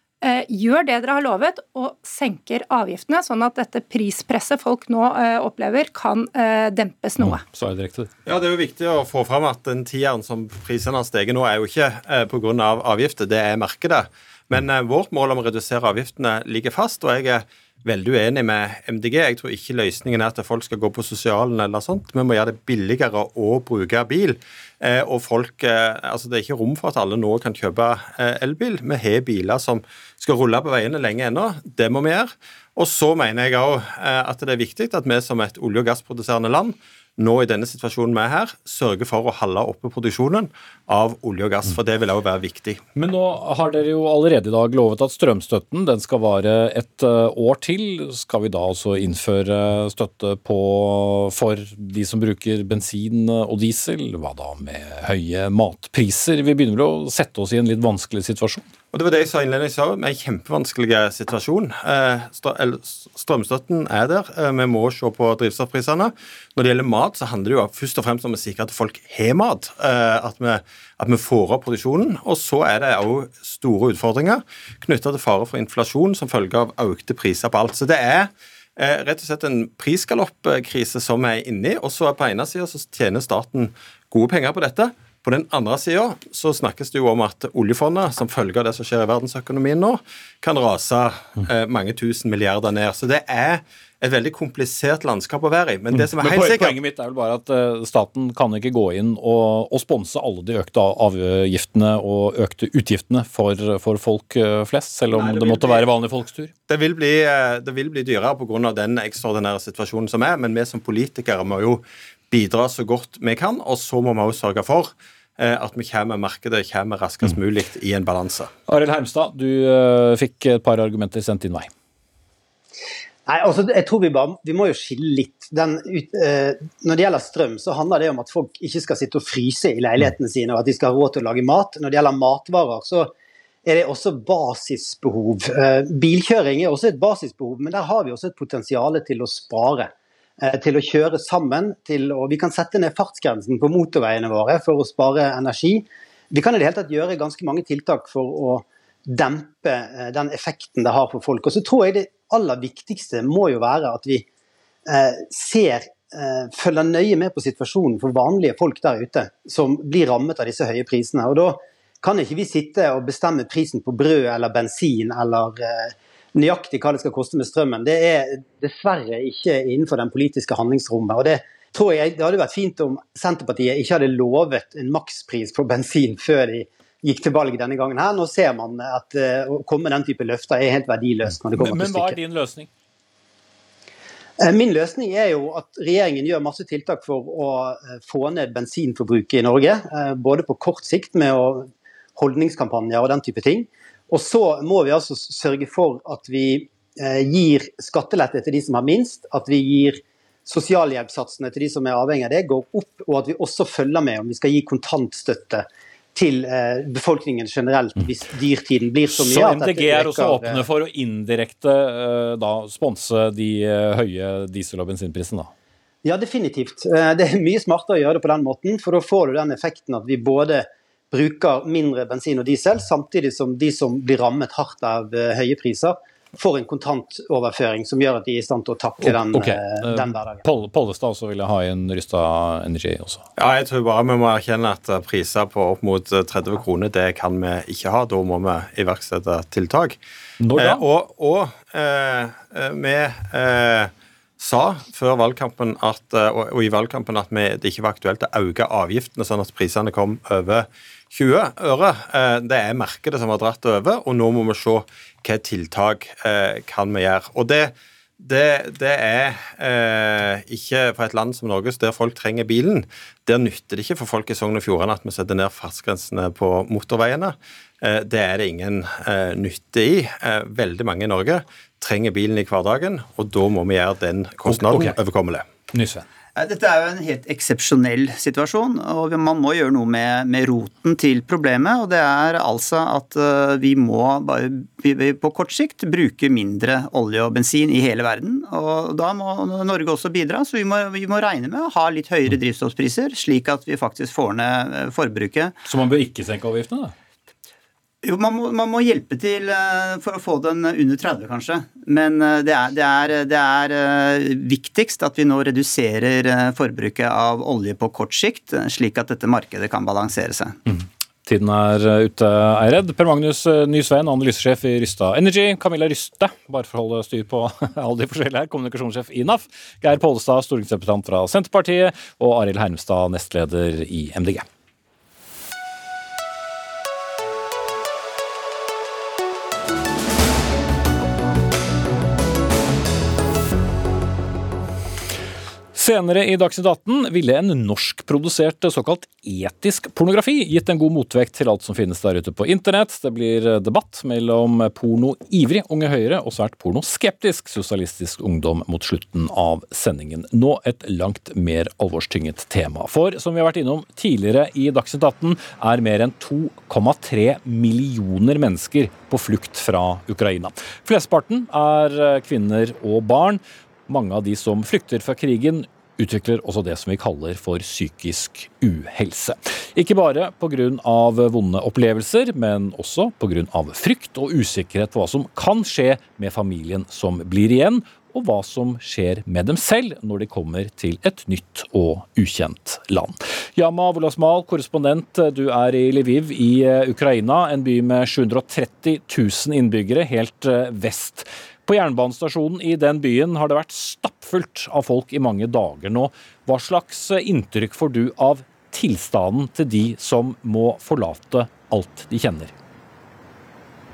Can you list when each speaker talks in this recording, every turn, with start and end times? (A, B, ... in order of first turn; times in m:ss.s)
0:00.2-0:07.4 A
0:07.2-0:08.1 B
0:08.3-0:42.8 C
0:43.0-0:58.7 B
0:58.9-1:36.8 C
1:35.9-1:46.5 B
1:45.1-1:45.9 C
1:46.7-1:58.5 C
1:58.7-2:01.7 B
2:03.3-2:13.1 D
2:13.6-2:34.3 D
2:34.9-3:02.2 D
3:01.5-3:02.7 B
3:04.4-3:30.6 D
3:29.1-3:35.5 B
3:36.0-3:50.4 D
3:49.0-3:53.2 B
3:53.4-4:00.0 C
4:00.4-4:00.8 B
4:00.5-4:35.5 C
4:34.5-4:35.0 B
4:35.7-4:36.0 B
4:36.4-4:55.6 E
4:55.6-4:56.9 B
4:58.0-5:10.6 E
5:10.7-5:24.5 B
5:35.8-6:42.5 B